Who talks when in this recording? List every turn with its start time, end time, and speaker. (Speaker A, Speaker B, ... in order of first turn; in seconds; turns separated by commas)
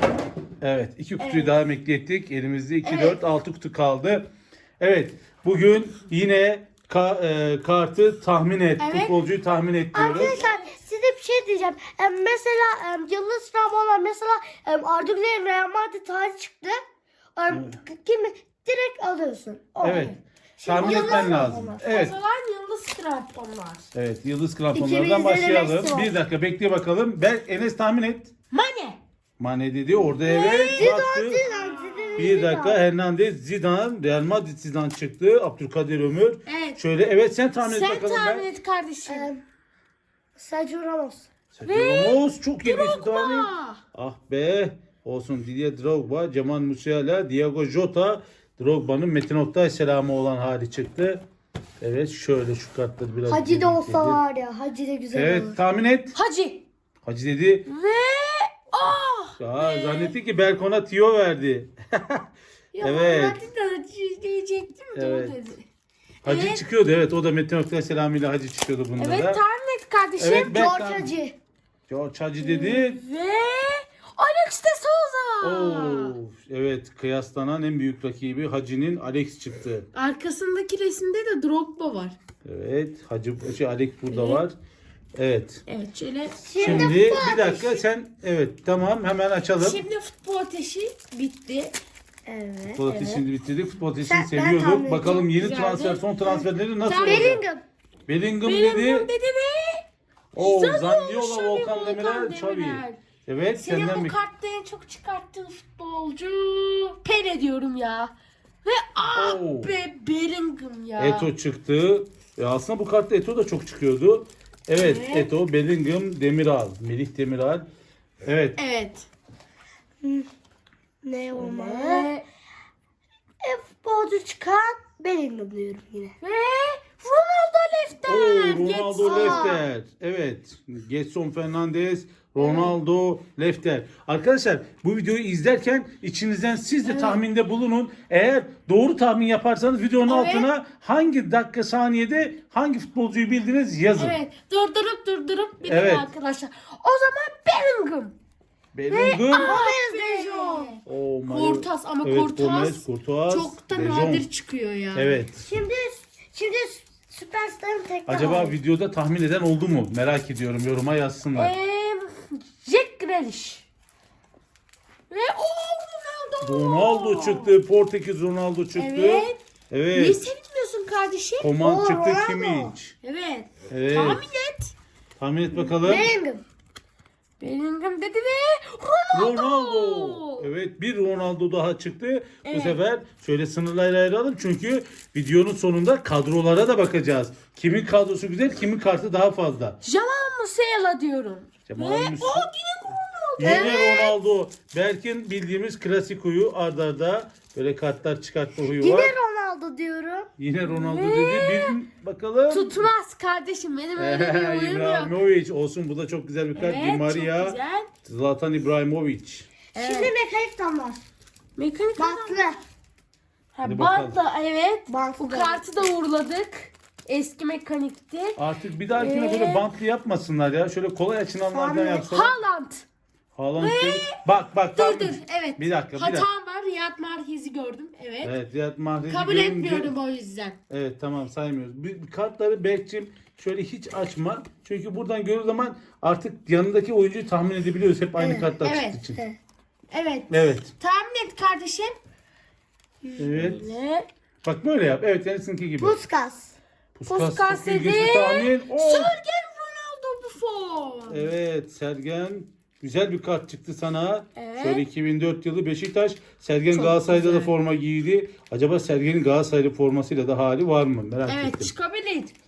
Speaker A: 0.6-4.3, Speaker B: 1.2-1.6, Speaker B: 2.8-3.2, Speaker A: 4.8-10.4, Speaker B: 8.8-9.2, Speaker C: 9.9-16.8, Speaker B: 9.9-10.7, Speaker C: 17.4-20.1, Speaker A: 17.5-17.8, Speaker A: 19.8-22.1, Speaker B: 19.9-23.9, Speaker C: 20.6-21.8, Speaker A: 23.9-28.3, Speaker C: 24.7-26.1, Speaker B: 28.5-29.0, Speaker A: 29.4-31.4, Speaker B: 30.1-30.9, Speaker C: 30.7-32.8, Speaker B: 31.5-32.3, Speaker A: 32.1-38.5, Speaker B: 36.5-36.8, Speaker B: 37.6-39.3, Speaker C: 39.0-39.4, Speaker C: 40.4-41.3, Speaker A: 41.5-51.2, Speaker B: 41.6-43.8, Speaker A: 51.8-54.2, Speaker C: 53.3-55.6, Speaker A: 55.1-56.1, Speaker B: 56.1-56.6, Speaker A: 57.0-57.7, Speaker B: 57.7-60.1, Speaker A: 59.4-62.2, Speaker B: 62.7-65.6, Speaker A: 62.8-63.4, Speaker A: 64.9-65.4, Speaker B: 66.2-66.6, Speaker A: 66.2-69.4, Speaker B: 69.0-70.6, Speaker A: 70.2-71.1, Speaker C: 70.4-71.3, Speaker A: 71.9-73.0, Speaker B: 72.4-76.2, Speaker A: 75.4-79.8, Speaker B: 79.9-82.2, Speaker A: 82.4-84.5, Speaker B: 84.1-84.4, Speaker A: 85.2-85.6, Speaker B: 85.7-86.9, Speaker C: 86.4-87.8, Speaker A: 86.6-89.8, Speaker B: 89.5-91.7, Speaker C: 92.2-92.9, Speaker A: 92.8-97.4, Speaker B: 92.9-93.2, Speaker C: 94.0-95.1, Speaker B: 95.0-96.0, Speaker C: 96.2-97.6, Speaker B: 96.8-97.4, Speaker A: 98.1-99.1, Speaker B: 98.4-99.8, Speaker A: 100.3-104.1, Speaker B: 100.4-103.0, Speaker B: 103.5-108.1, Speaker B: 108.6-111.3, Speaker A: 109.1-109.7, Speaker A: 111.0-117.6, Speaker B: 114.7-115.3, Speaker A: 118.2-118.6, Speaker B: 118.5-119.1, Speaker C: 120.0-120.3, Speaker C: 121.0-122.1, Speaker B: 121.3-122.2, Speaker C: 123.4-126.1, Speaker B: 126.2-129.6, Speaker A: 128.0-144.2, Speaker C: 129.0-129.6, Speaker B: 132.4-132.7, Speaker B: 136.8-137.2, Speaker B: 140.1-140.5, Speaker B: 144.0-148.1, Speaker A: 145.6-146.1, Speaker A: 148.7-149.6, Speaker B: 148.9-155.2, Speaker C: 149.3-150.7, Speaker A: 150.8-154.3, Speaker A: 154.9-155.4, Speaker C: 155.3-158.5, Speaker A: 158.1-161.5, Speaker B: 158.2-158.4, Speaker B: 161.3-163.7, Speaker B: 165.1-167.5, Speaker A: 166.4-170.2, Speaker B: 168.7-169.4, Speaker B: 169.9-171.5, Speaker A: 171.4-172.9, Speaker C: 171.6-172.7, Speaker B: 173.0-174.7, Speaker A: 173.7-174.2, Speaker A: 175.2-176.1, Speaker C: 175.8-176.4, Speaker B: 177.4-180.5, Speaker A: 179.1-189.8, Speaker B: 182.4-182.8, Speaker B: 189.8-194.1, Speaker A: 191.7-192.5, Speaker A: 193.4-199.2, Speaker C: 193.4-194.1, Speaker C: 198.7-200.3, Speaker A: 200.4-202.8, Speaker B: 200.6-201.8, Speaker B: 202.5-205.1, Speaker A: 203.9-209.5, Speaker B: 206.5-207.9, Speaker B: 209.7-210.1, Speaker C: 209.8-211.0, Speaker B: 211.6-212.4, Speaker C: 212.0-212.6, Speaker B: 213.5-218.4, Speaker A: 213.6-214.2, Speaker C: 214.9-215.7, Speaker A: 218.4-222.3, Speaker B: 218.9-219.7, Speaker C: 221.5-222.1, Speaker B: 222.1-222.8, Speaker A: 223.3-226.3, Speaker B: 223.6-228.3, Speaker A: 228.2-229.9, Speaker B: 229.1-230.6, Speaker A: 230.7-239.2, Speaker C: 238.2-238.5, Speaker B: 238.6-239.0, Speaker B: 239.9-241.9, Speaker A: 240.3-240.7, Speaker B: 243.1-244.1, Speaker A: 243.2-243.7, Speaker A: 244.4-246.0, Speaker C: 245.8-246.5, Speaker A: 246.9-249.2, Speaker B: 247.1-251.3, Speaker A: 251.1-261.7, Speaker B: 254.3-254.8, Speaker B: 256.7-257.5, Speaker B: 261.2-262.3